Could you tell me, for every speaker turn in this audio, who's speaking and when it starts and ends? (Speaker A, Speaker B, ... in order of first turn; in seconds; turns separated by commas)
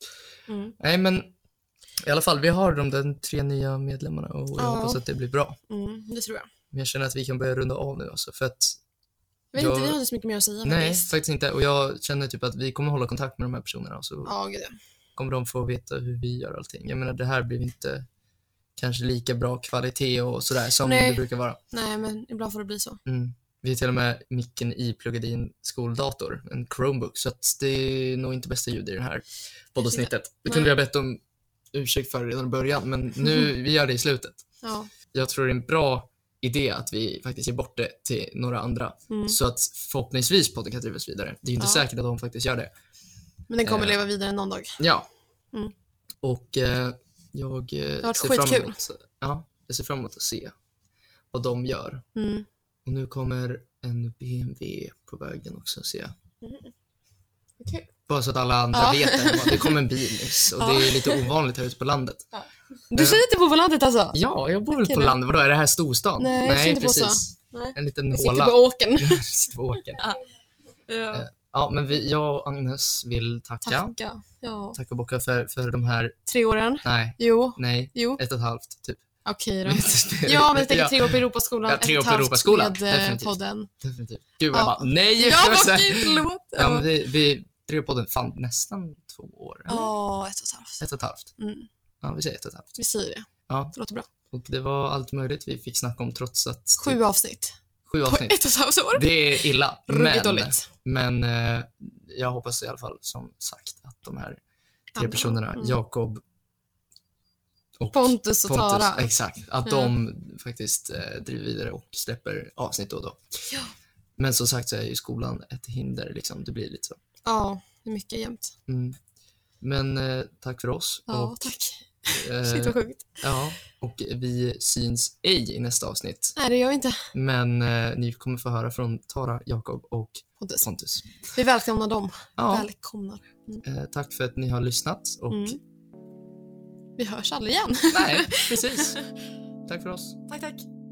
Speaker A: 0.5-0.8, Speaker B: 0.8-1.3, Speaker B: 2.0-5.6, Speaker A: 4.6-5.0, Speaker A: 5.7-6.5, Speaker B: 6.7-8.8, Speaker A: 9.5-11.1, Speaker B: 9.6-10.0, Speaker B: 10.6-14.3, Speaker A: 14.2-14.8, Speaker B: 15.2-18.1, Speaker B: 18.8-21.6, Speaker A: 20.8-23.0, Speaker B: 23.1-31.2, Speaker A: 29.8-30.7, Speaker B: 31.7-34.5, Speaker A: 34.6-34.9, Speaker B: 35.1-42.7, Speaker A: 39.1-39.4, Speaker A: 41.6-41.8, Speaker A: 43.5-44.8, Speaker B: 43.6-44.0, Speaker B: 44.8-45.1, Speaker B: 46.2-50.5, Speaker A: 48.0-48.8, Speaker B: 51.3-52.0, Speaker A: 52.1-52.5, Speaker B: 52.9-56.1, Speaker A: 56.4-56.7, Speaker A: 57.6-57.9, Speaker B: 58.1-62.2, Speaker A: 58.7-59.9, Speaker A: 60.5-61.3, Speaker A: 62.9-64.2, Speaker B: 63.0-63.3, Speaker B: 64.1-70.1, Speaker A: 64.8-65.2, Speaker A: 66.2-69.3, Speaker A: 70.9-71.3, Speaker B: 71.1-74.0, Speaker A: 73.6-74.8, Speaker B: 74.7-76.2, Speaker A: 76.3-78.2, Speaker B: 76.8-79.0, Speaker A: 79.2-83.7, Speaker B: 79.7-89.9, Speaker A: 84.5-86.9, Speaker A: 89.7-90.8, Speaker B: 90.8-91.3, Speaker A: 91.4-91.7, Speaker B: 92.0-92.7, Speaker A: 92.8-94.1, Speaker B: 93.5-93.8, Speaker B: 94.3-97.0, Speaker A: 96.8-97.5, Speaker B: 97.9-104.4, Speaker A: 98.1-100.7, Speaker A: 105.0-105.8, Speaker B: 105.0-106.2, Speaker B: 107.8-113.2, Speaker A: 107.9-109.1, Speaker A: 109.7-109.9, Speaker B: 114.2-117.0, Speaker A: 117.2-118.5, Speaker B: 118.7-119.0, Speaker B: 119.6-121.4, Speaker A: 121.1-123.1, Speaker B: 122.1-126.4, Speaker A: 126.4-127.1, Speaker B: 127.1-131.1, Speaker A: 131.3-133.6, Speaker B: 132.4-132.7, Speaker B: 133.6-135.6, Speaker A: 135.3-135.6, Speaker A: 137.0-139.0, Speaker B: 137.9-139.0, Speaker B: 139.7-140.2, Speaker A: 140.3-140.7